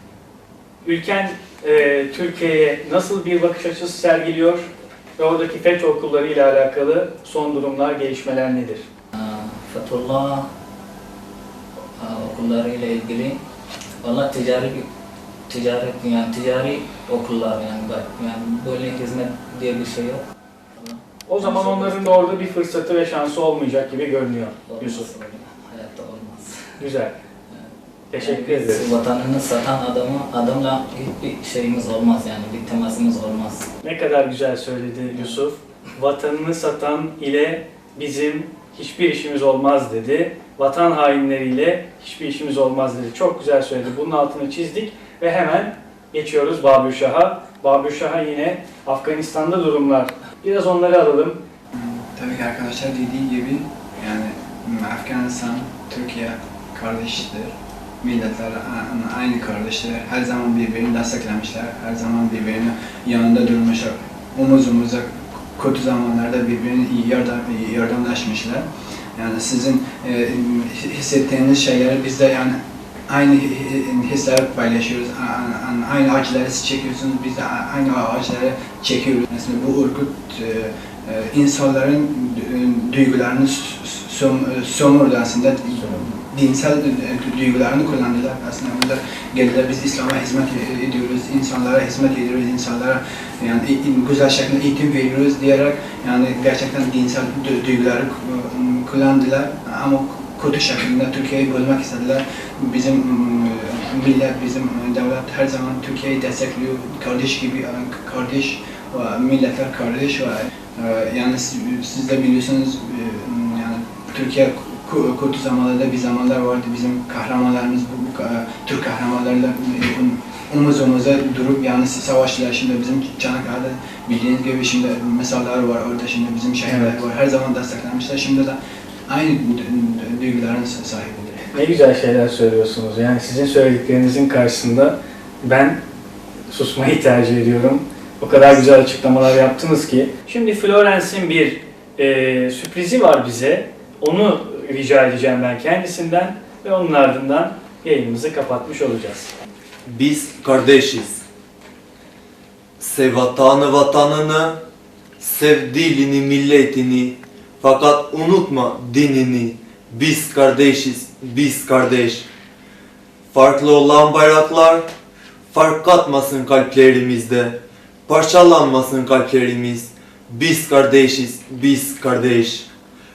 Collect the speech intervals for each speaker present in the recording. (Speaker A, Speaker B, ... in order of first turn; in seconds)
Speaker A: 0.8-8.8, 21.3-25.1, 26.8-27.1, 28.1-28.9, 33.8-51.4, 126.7-127.0, 131.5-135.8, 136.5-149.3
Speaker B: 9.1-10.5, 12.0-13.4, 14.0-14.9, 15.5-20.2, 20.8-22.5, 24.7-26.8, 28.2-33.7
Speaker C: 51.7-68.6, 69.2-128.6, 129.1-131.5
Speaker D: 149.9-151.2, 152.8-154.6, 155.2-162.2, 163.3-164.8, 165.5-172.7